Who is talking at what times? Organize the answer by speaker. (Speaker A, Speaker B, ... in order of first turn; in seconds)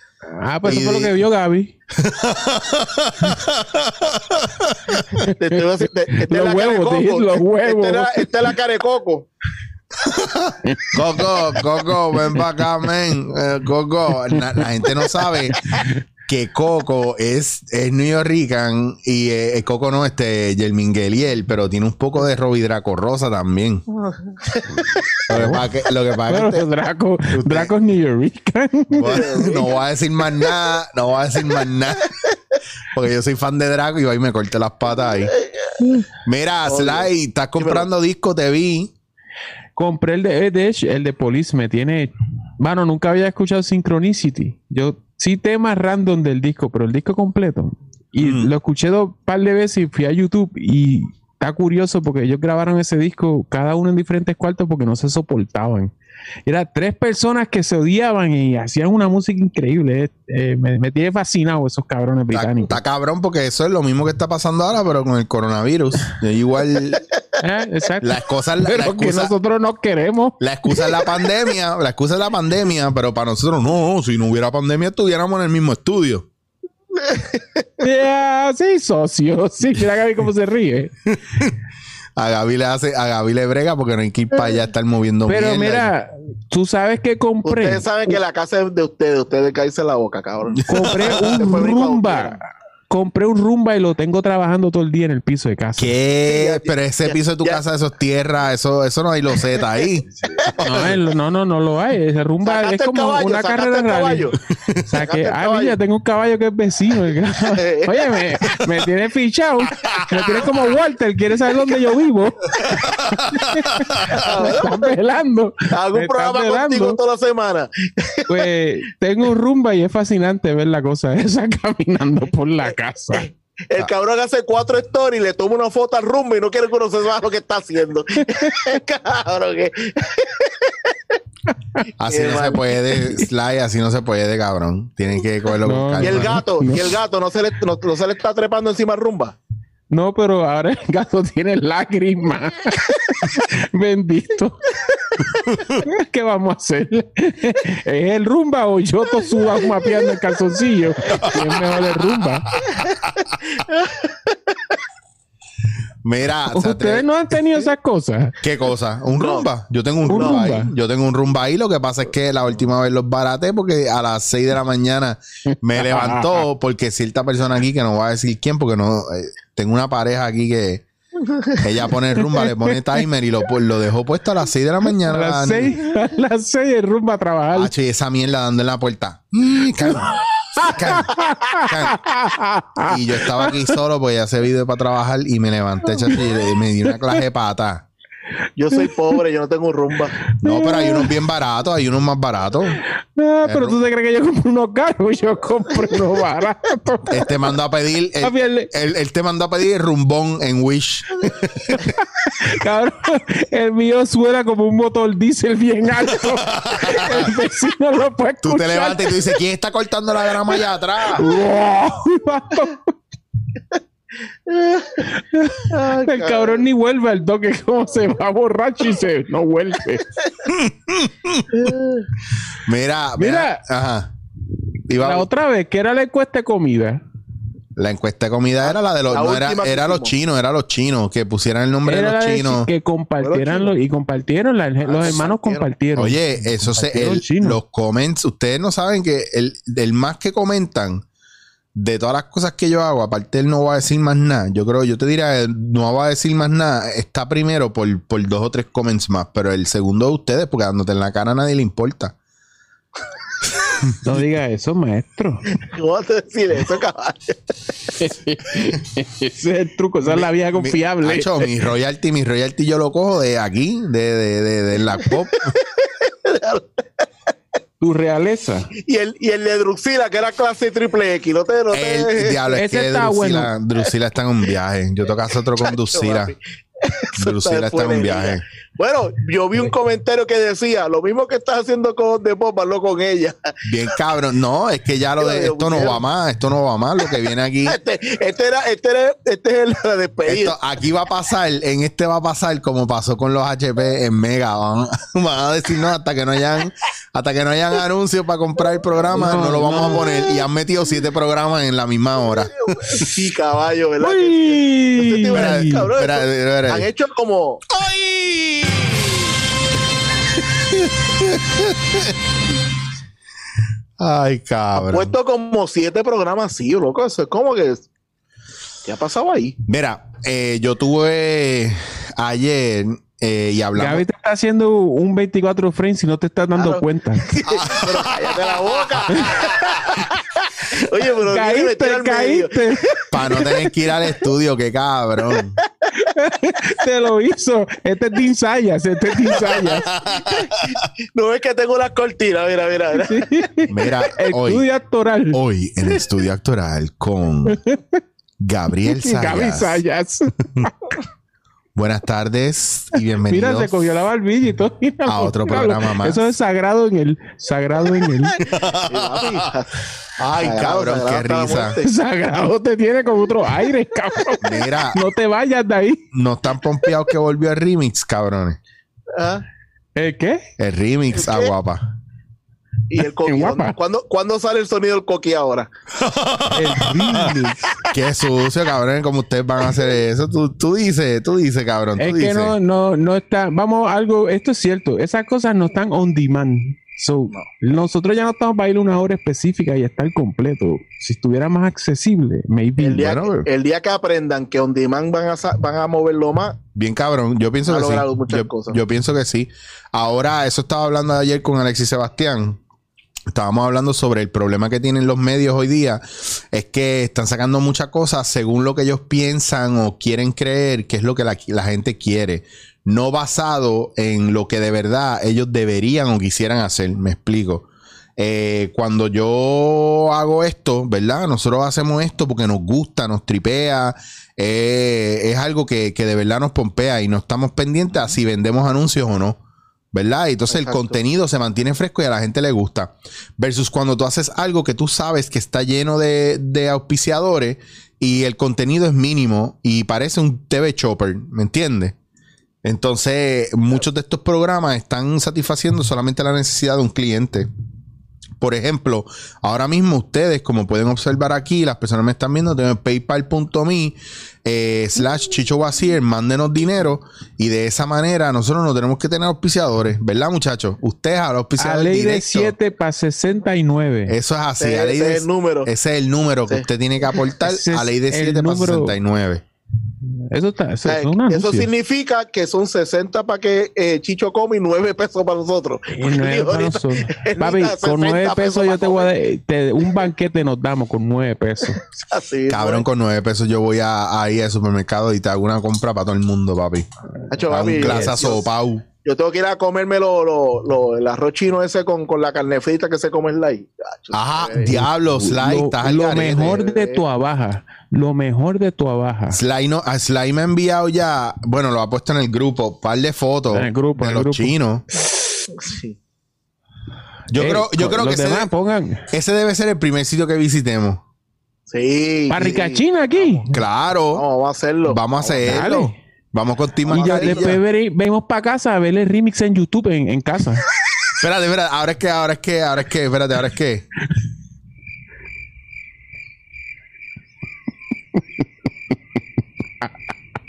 Speaker A: 0.3-1.7, 5.2-5.6, 6.2-8.3, 10.6-10.9, 14.3-14.6, 15.7-16.0, 25.3-25.7, 26.3-29.4, 39.8-55.9, 56.5-62.8, 67.4-70.8, 77.8-80.9, 85.3-88.2, 90.6-95.9, 100.4-117.0, 118.3-123.3, 128.2-128.7, 131.5-131.8, 135.6-136.9, 139.9-152.5, 156.5-158.4, 160.1-160.7, 165.5-166.4, 172.2-172.8, 175.0-177.7, 179.8-183.7, 186.9-187.2, 188.7-189.2, 190.3-191.1, 193.1-197.3, 198.2-198.7, 201.7-209.2, 211.1-212.9, 215.0-220.1, 223.2-223.6, 225.0-227.0, 231.8-237.6, 254.0-255.5, 257.9-261.5, 267.8-268.7, 272.5-273.5, 299.1-300.0, 304.0-305.9, 323.8-327.3, 329.1-329.5, 331.2-333.7, 335.9-340.4, 342.9-345.4, 347.4-347.9, 348.8-350.9, 353.2-358.4, 361.8-366.0, 369.9-370.5, 373.2-373.8, 376.5-377.8, 382.0-393.1, 461.6-464.1, 467.5-469.0, 470.0-471.7, 475.9-481.8, 495.1-499.4, 503.5-504.5, 507.4-509.1, 512.3-513.6, 515.4-516.0, 516.9-520.6
Speaker B: 0.6-1.2, 2.0-5.3, 10.0-15.7, 16.3-23.8, 25.3-26.6, 27.3-27.7, 28.9-32.1, 32.9-35.3, 36.2-38.9, 48.2-48.5, 62.3-67.0, 68.0-69.3, 70.4-76.3, 81.3-81.5, 82.2-85.9, 90.5-91.3, 95.8-101.0, 109.8-110.3, 112.6-114.2, 132.0-136.4, 151.1-153.0, 156.0-157.1, 158.4-170.8, 171.6-175.8, 177.5-182.1, 182.8-187.8, 190.4-192.8, 193.4-193.8, 197.1-201.9, 206.1-207.3, 208.4-211.3, 220.4-221.7, 222.6-224.1, 224.9-225.3, 227.8-232.7, 235.9-241.0, 241.7-252.1, 253.8-254.2, 260.0-265.5, 271.7-276.3, 277.2-278.4, 283.6-287.8, 290.3-303.0, 305.3-306.9, 307.7-309.2, 310.4-312.1, 314.0-315.1, 319.6-324.0, 327.4-329.9, 333.1-335.6, 339.9-340.5, 343.7-344.6, 345.3-347.6, 348.4-349.8, 351.8-353.7, 355.1-356.2, 358.5-359.5, 360.2-361.8, 364.4-365.0, 366.1-368.6, 370.6-371.8, 375.9-377.4, 377.9-382.5, 393.0-393.5, 396.7-402.6, 403.3-429.4, 429.9-441.9, 442.6-447.5, 448.4-462.5, 464.1-469.4, 482.5-486.9, 487.5-488.8, 494.1-496.6, 499.3-504.8, 507.3-508.5, 509.1-511.0, 513.5-514.2, 514.9-517.6, 521.2-523.9
Speaker C: 5.3-9.3, 23.9-24.9, 29.0-29.8, 35.3-35.9, 36.6-37.9, 77.0-77.6, 87.4-92.4, 96.2-97.6, 102.4-104.4, 104.9-105.8, 107.5-108.2, 114.1-114.9, 115.7-118.5, 123.1-130.9, 132.1-132.7, 136.0-139.3, 152.8-154.6, 159.1-159.5, 160.1-160.4, 188.6-190.2, 214.5-215.1, 215.7-216.6, 221.5-222.0, 229.1-230.1, 233.2-233.7, 234.8-235.7, 255.6-257.4, 265.5-267.0, 268.8-272.5, 275.6-283.5, 285.2-286.0, 287.7-290.5, 302.7-307.7, 314.8-317.9, 318.8-319.6, 326.6-332.9, 340.2-343.3, 358.5-359.7, 360.4-361.9, 369.1-369.4, 372.9-375.7, 392.8-396.6, 397.6-398.8, 430.5-430.9, 464.6-465.7, 470.8-479.1, 481.8-482.9, 487.3-488.5, 489.0-494.8, 496.2-497.0, 505.5-506.0, 511.7-513.5, 514.1-515.7, 516.9-517.6